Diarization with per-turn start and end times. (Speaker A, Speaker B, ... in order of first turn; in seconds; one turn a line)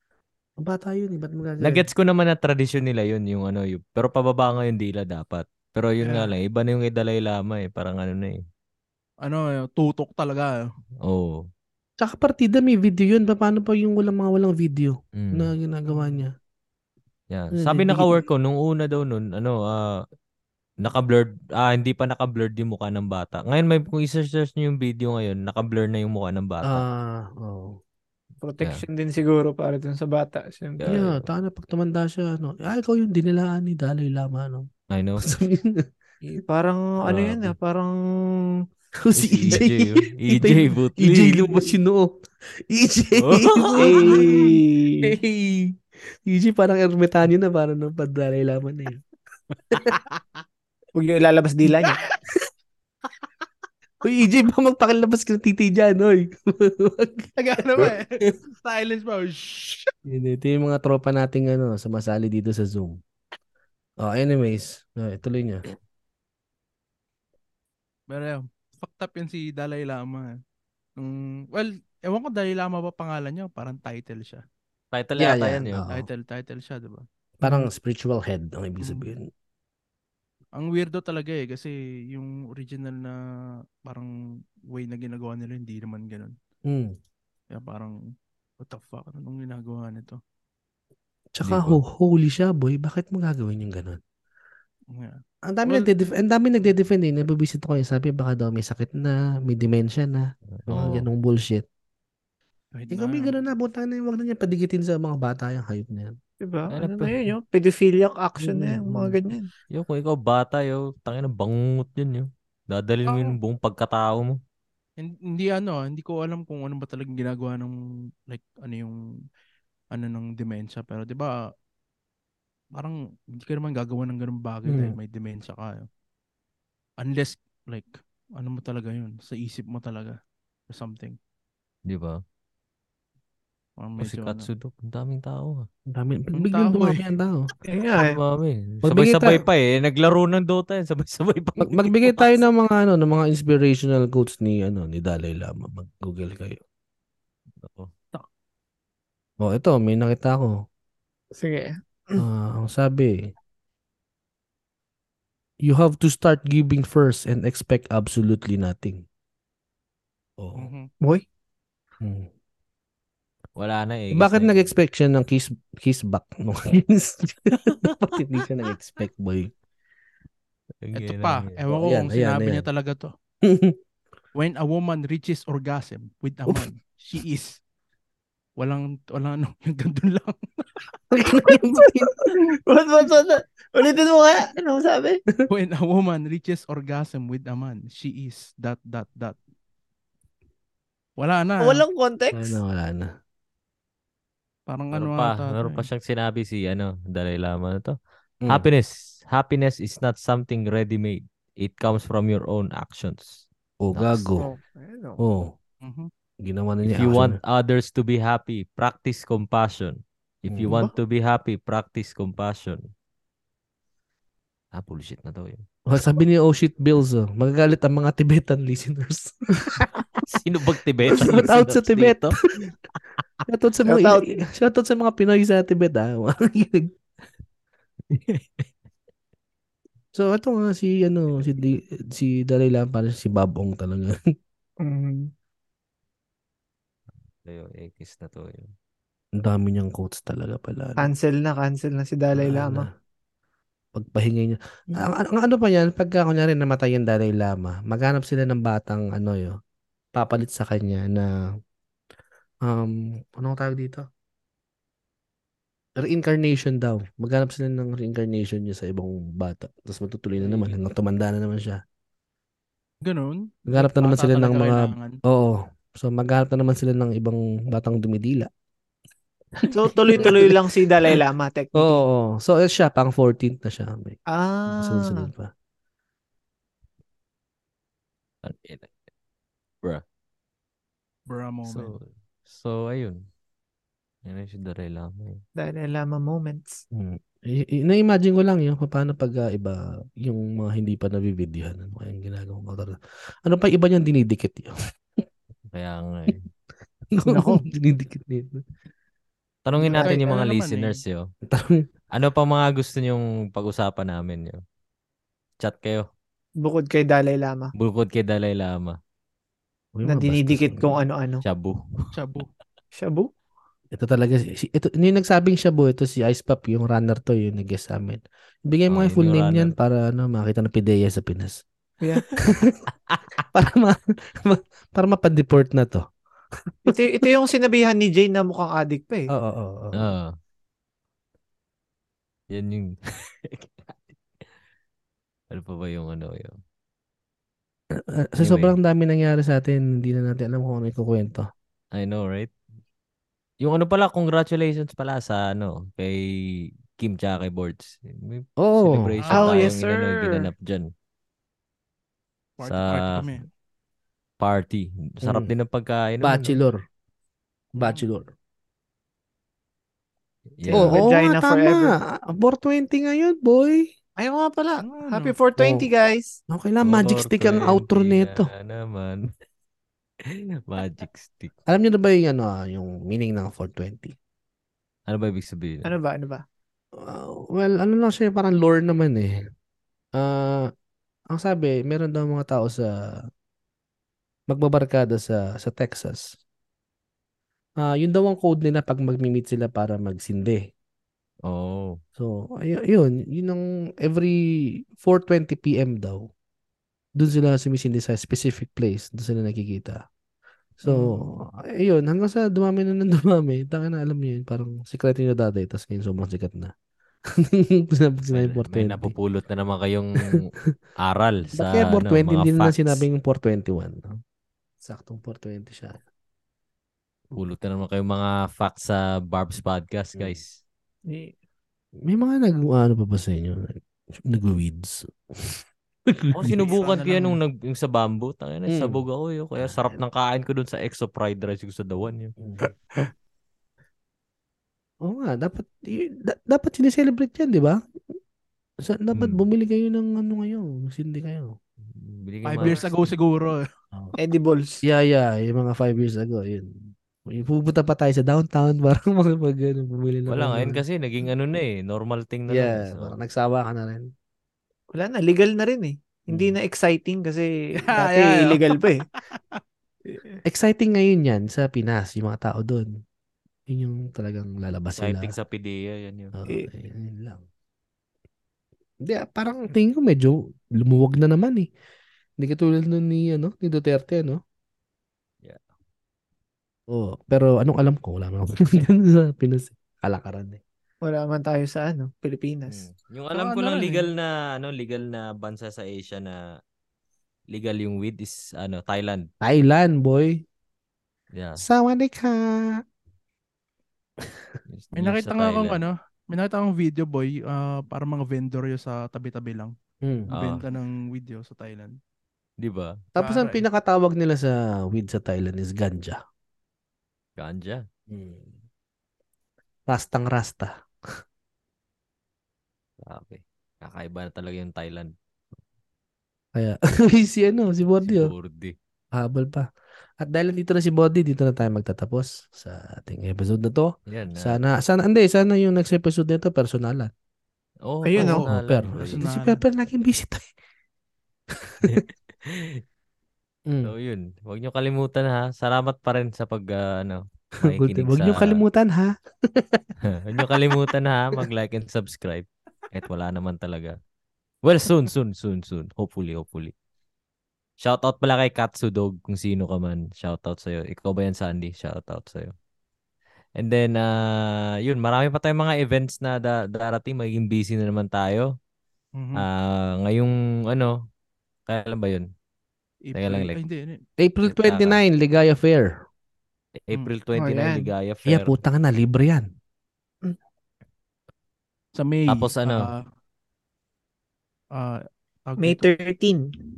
Speaker A: 0.6-1.9
Speaker B: 1.6-8.4
Speaker C: 9.2-10.6
Speaker B: 11.0-11.5
Speaker A: 12.0-16.3
Speaker B: 15.2-15.5
Speaker B: 17.3-20.0
Speaker A: 17.5-18.3
Speaker B: 20.8-26.8
Speaker A: 26.6-27.8
Speaker D: 28.4-31.0
Speaker B: 30.8-31.2
Speaker A: 30.9-34.7
Speaker B: 34.9-35.2
Speaker A: 35.2-36.4
Speaker D: 36.3-38.6
Speaker B: 37.0-37.5
Speaker A: 39.0-49.0
Speaker B: 39.1-41.7
Speaker B: 43.2-43.9
Speaker D: 43.8-45.1
Speaker A: 49.7-50.0
Speaker D: 50.9-52.1
Speaker A: 51.7-51.9
Speaker A: 54.0-58.3
Speaker C: 57.4-59.9
Speaker A: 60.0-63.0
Speaker A: 64.0-65.6
Speaker C: 68.1-70.4
Speaker C: 71.0-74.4
Speaker B: 74.9-75.8
Speaker A: 75.2-76.1
Speaker C: 75.9-77.7
Speaker A: 77.4-79.3
Speaker C: 78.8-79.1
Speaker C: 80.5-83.2
Speaker C: 83.8-84.1
Speaker C: 84.7-86.3
Speaker A: 86.7-86.9
Speaker C: 87.5-88.0
Speaker C: 88.6-90.2
Speaker A: 91.3-94.0
Speaker B: 91.4-91.8
Speaker C: 94.9-95.9
Speaker A: 95.5-101.6
Speaker B: 100.6-101.1
Speaker C: 102.7-103.3
Speaker A: 102.9-106.2
Speaker D: 106.4-109.5
Speaker B: 106.7-107.3
Speaker A: 108.4-109.1
Speaker B: 109.7-114.4
Speaker C: 113.1-113.3
Speaker C: 115.0-117.7
Speaker C: 118.3-119.0
Speaker C: 119.9-121.5
Speaker C: 122.7-125.9
Speaker A: 124.6-125.0
Speaker C: 127.0-130.2
Speaker C: 130.7-131.2
Speaker B: 131.9-132.2
Speaker C: 133.8-134.5
Speaker B: 134.0-135.7
Speaker A: 135.9-137.5
Speaker C: 136.3-137.0
Speaker D: 137.6-138.2
Speaker B: 138.0-141.9
Speaker A: 138.8-139.4
Speaker A: 141.6-146.6
Speaker B: 147.6-147.9
Speaker A: 149.4-150.5
Speaker D: 151.3-152.2
Speaker A: 152.2-153.3
Speaker A: 155.6-159.0
Speaker A: 160.4-160.7
Speaker C: 160.6-160.9
Speaker A: 162.0-162.3
Speaker B: 163.6-164.6
Speaker A: 164.1-169.5
Speaker B: 167.6-167.9
Speaker B: 170.8-171.6
Speaker C: 170.9-173.1
Speaker A: 171.7-172.6
Speaker A: 173.4-173.8
Speaker C: 174.3-177.6
Speaker C: 178.6-180.8
Speaker A: 181.1-182.3
Speaker D: 181.3-181.6
Speaker D: 182.2-185.2
Speaker C: 185.5-189.4
Speaker C: 191.2-191.8
Speaker D: 191.6-192.6
Speaker A: 192.3-193.1
Speaker C: 194.7-195.9
Speaker B: 194.9-197.9
Speaker B: 198.5-204.3
Speaker A: 203.8-204.5
Speaker D: 204.4-205.2
Speaker A: 205.2-205.5
Speaker C: 205.8-206.1
Speaker A: 206.4-207.4
Speaker B: 206.8-212.8
Speaker A: 210.5-210.8
Speaker B: 214.7-215.6
Speaker A: 215.9-219.9
Speaker B: 220.2-222.3
Speaker A: 221.1-222.7
Speaker A: 223.5-226.9
Speaker D: 223.8-224.3
Speaker A: 230.1-234.1
Speaker D: 234.8-235.3
Speaker B: 237.4-238.7
Speaker A: 239.4-241.1
Speaker D: 241.0-242.9
Speaker A: 242.4-242.9
Speaker A: 243.9-249.6
Speaker A: 250.1-251.3
Speaker A: 252.6-254.0
Speaker A: 256.0-261.8
Speaker C: 260.4-260.8
Speaker C: 263.0-265.2
Speaker A: 263.7-268.5
Speaker A: 269.6-270.7
Speaker D: 269.7-272.0
Speaker A: 271.7-274.2
Speaker D: 274.3-275.3
Speaker A: 274.7-275.5
Speaker B: 278.4-278.9
Speaker C: 281.3-281.9
Speaker B: 281.6-283.3
Speaker B: 284.2-285.4
Speaker D: 285.6-286.8
Speaker A: 286.9-294.7
Speaker B: 295.7-296.4
Speaker A: 297.1-298.6
Speaker B: 299.6-301.3
Speaker C: 299.9-301.0
Speaker A: 301.5-301.9
Speaker B: 302.1-304.6
Speaker B: 305.6-306.1
Speaker D: 306.6-307.7
Speaker B: 307.7-309.0
Speaker A: 309.9-311.1
Speaker D: 310.0-311.4
Speaker B: 311.4-312.1
Speaker C: 312.1-312.5
Speaker D: 312.9-313.3
Speaker A: 313.9-321.6
Speaker B: 318.9-319.7
Speaker D: 322.0-322.4
Speaker A: 322.5-322.8
Speaker A: 323.5-326.0
Speaker D: 326.9-329.3
Speaker A: 329.3-330.1
Speaker B: 329.9-330.3
Speaker B: 332.5-334.1
Speaker B: 335.5-336.6
Speaker A: 337.9-341.4
Speaker B: 338.4-338.8
Speaker B: 341.9-342.5
Speaker B: 343.6-350.9
Speaker A: 348.6-349.1
Speaker C: 349.2-349.7
Speaker D: 349.3-350.5
Speaker C: 352.6-353.5
Speaker B: 352.6-353.3
Speaker B: 354.4-356.6
Speaker A: 355.2-355.5
Speaker A: 356.2-356.8
Speaker A: 357.7-358.3
Speaker C: 357.8-358.1
Speaker B: 360.6-361.0
Speaker D: 360.7-361.9
Speaker A: 360.7-363.9
Speaker D: 364.2-366.4
Speaker C: 364.8-365.3
Speaker A: 365.6-365.9
Speaker A: 366.5-368.5
Speaker B: 366.8-369.3
Speaker B: 370.2-371.5
Speaker A: 371.7-374.1
Speaker B: 375.1-375.9
Speaker D: 375.8-376.4
Speaker A: 377.0-379.4
Speaker A: 380.1-380.7
Speaker A: 381.3-382.9
Speaker A: 384.5-386.4
Speaker A: 387.8-390.7
Speaker B: 391.4-392.0
Speaker A: 392.2-396.3
Speaker A: 397.2-400.0
Speaker A: 400.8-406.7
Speaker A: 407.4-409.1
Speaker B: 408.3-410.5
Speaker B: 411.0-413.0
Speaker A: 411.5-414.2
Speaker A: 414.8-416.0
Speaker B: 417.3-420.6
Speaker A: 420.1-420.4
Speaker A: 422.0-426.6
Speaker B: 426.3-432.3
Speaker C: 426.4-427.4
Speaker A: 428.7-429.0
Speaker A: 432.4-432.7
Speaker A: 435.0-437.8
Speaker A: 438.8-441.5
Speaker B: 439.1-439.4
Speaker B: 441.9-442.9
Speaker C: 442.4-443.6
Speaker D: 444.2-444.8
Speaker A: 444.8-450.8
Speaker B: 450.3-453.2
Speaker A: 452.5-454.1
Speaker D: 454.9-459.0
Speaker A: 456.3-456.6
Speaker C: 457.8-458.8
Speaker D: 460.1-460.4
Speaker A: 460.4-462.9
Speaker A: 463.7-465.3
Speaker B: 464.9-466.3
Speaker A: 466.3-467.4
Speaker A: 469.0-471.7
Speaker A: 472.4-474.4
Speaker A: 476.9-480.6
Speaker D: 481.0-482.8
Speaker B: 482.7-486.6
Speaker C: 483.3-484.1
Speaker B: 487.5-489.3
Speaker A: 489.4-490.4
Speaker B: 491.3-491.6
Speaker A: 491.6-492.8
Speaker B: 494.7-495.8
Speaker C: 494.9-499.7
Speaker B: 500.3-500.6
Speaker C: 500.3-501.9
Speaker B: 502.6-503.1
Speaker A: 503.1-506.2
Speaker C: 503.2-503.6
Speaker B: 507.4-507.8
Speaker A: 508.1-508.5
Speaker A: 509.9-510.7
Speaker B: 513.0-515.1
Speaker A: 516.5-518.3
Speaker B: 518.0-518.7
Speaker A: 519.1-519.7
Speaker A: 520.2-527.1
Speaker B: 524.1-524.6
Speaker B: 527.8-529.2
Speaker D: 528.0-528.4
Speaker C: 528.2-529.6
Speaker A: 528.4-530.5
Speaker A: 531.5-532.0
Speaker B: 531.8-532.8
Speaker A: 533.7-533.9
Speaker B: 533.8-538.6
Speaker A: 537.6-539.9
Speaker B: 540.0-544.0
Speaker B: 544.6-546.7
Speaker B: 547.8-552.5
Speaker B: 553.5-558.5
Speaker C: 559.1-559.5
Speaker B: 559.3-560.9
Speaker B: 561.7-562.3
Speaker C: 563.0-564.0
Speaker B: 563.1-563.6
Speaker A: 564.2-565.9
Speaker B: 564.4-565.0
Speaker B: 566.8-568.6
Speaker D: 567.3-567.9
Speaker A: 568.2-569.5
Speaker C: 571.9-573.0
Speaker B: 572.3-572.9
Speaker C: 574.7-575.8
Speaker D: 575.6-576.5